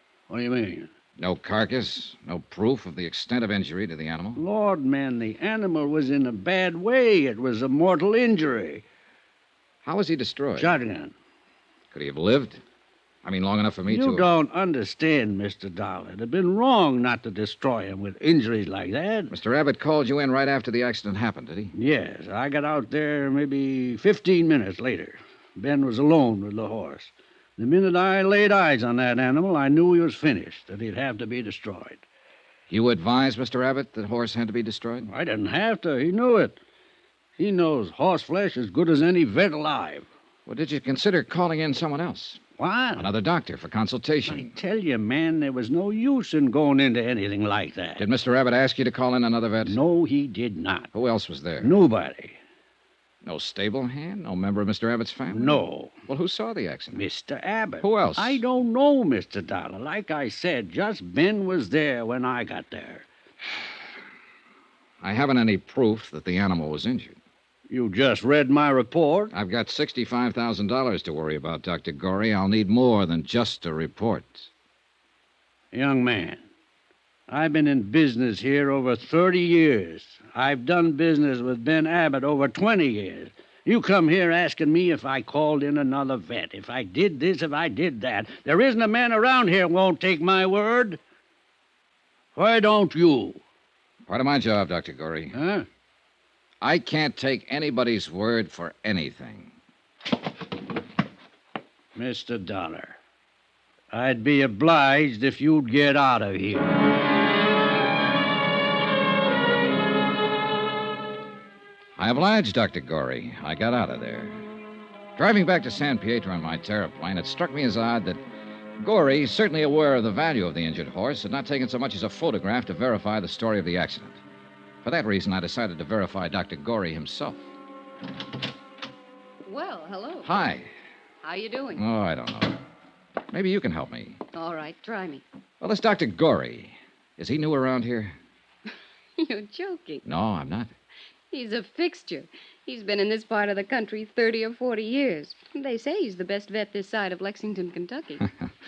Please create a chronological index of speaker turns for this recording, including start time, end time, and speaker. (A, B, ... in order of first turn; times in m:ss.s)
0:00.3-0:00.9 A
0:01.2-0:04.4 B
0:04.4-0:08.8 A
0:09.8-0:10.7 B
0:10.6-0:11.1 A
0:11.9-0:12.6 B
0:13.2-0:14.3 B
0:13.9-0:19.3 A
0:19.3-0:21.7 B
0:21.7-0:32.0 A
0:32.7-0:35.1 B
0:35.0-0:36.6 A
0:37.4-0:40.1 A
0:40.4-0:42.4 B
0:42.6-0:43.1 A
0:43.0-0:44.6 B
0:44.3-0:48.0 A
0:48.0-0:49.8 B
0:49.6-0:50.9 A
0:50.9-0:51.8 B
0:51.6-0:52.4 A
0:53.2-0:57.0 B
0:55.3-0:56.0 A
0:56.9-1:03.0 A
0:57.8-0:58.4 B
1:05.0-1:07.2 B
1:07.7-1:09.3 A
1:09.3-1:14.5 B
1:15.7-1:16.4 A
1:17.3-1:31.0 A
1:32.3-1:33.4 A
1:34.1-1:35.3 B
1:35.3-1:35.6 A
1:36.6-1:39.5 B
1:41.9-1:43.0 A
1:43.9-1:46.7 A
1:52.0-1:54.4 B
1:55.2-1:58.2 B
1:58.8-2:04.2 B
2:04.8-2:07.4 B
2:09.4-2:10.3 C
2:10.2-2:10.7 B
2:11.2-2:11.8 C
2:11.8-2:12.6 B
2:13.3-2:14.2 B
2:14.3-2:15.2 C
2:15.6-2:18.2 B
2:19.2-2:20.0 C
2:20.0-2:20.7 B
2:21.3-2:28.2 C